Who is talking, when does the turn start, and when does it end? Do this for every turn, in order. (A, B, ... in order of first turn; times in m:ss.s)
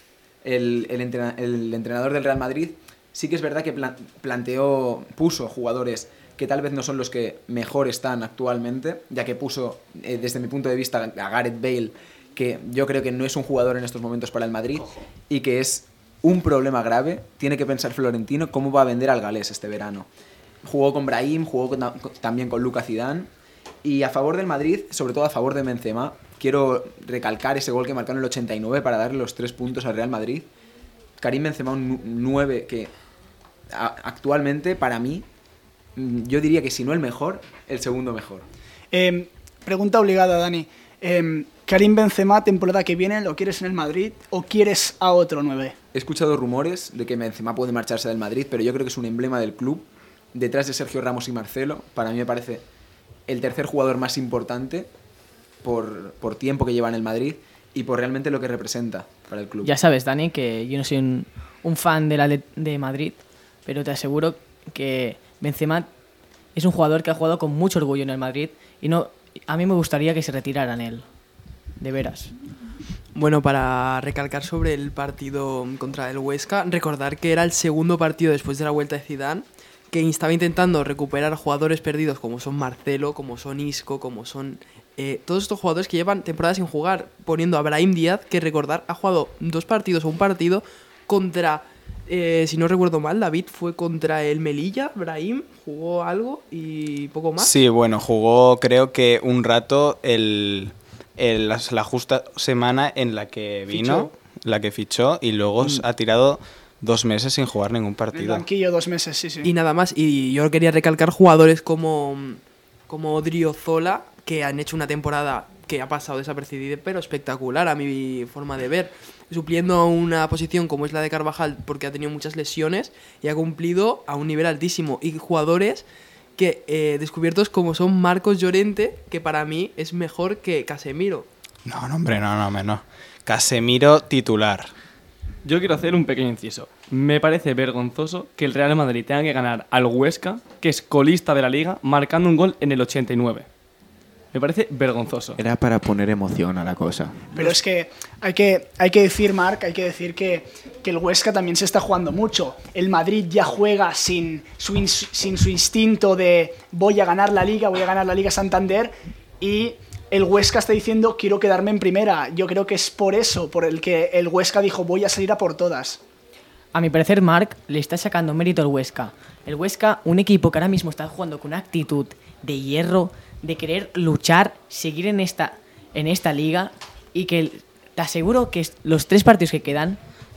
0:00.4-0:20.1 A
0:20.6-0:23.3 A
0:23.8-0:30.5 A
0:31.2-0:32.9 A
0:33.7-0:35.3 A
0:36.0-0:38.5 A
0:38.9-0:45.8 B
0:45.9-0:52.6 A
0:53.3-0:54.9 A
0:55.6-0:59.7 A
0:59.6-1:05.9 C
1:06.6-1:11.1 C
1:11.8-1:12.3 C
1:13.1-1:37.5 D
1:37.4-1:48.4 E
1:43.7-1:44.1 D
1:48.1-1:49.5 B
1:49.4-2:11.3 D
2:11.7-2:14.7 E
2:15.4-2:23.5 F
2:24.3-2:25.4 F
2:25.4-2:27.5 G
2:27.4-2:46.0 B
2:46.7-3:00.0 C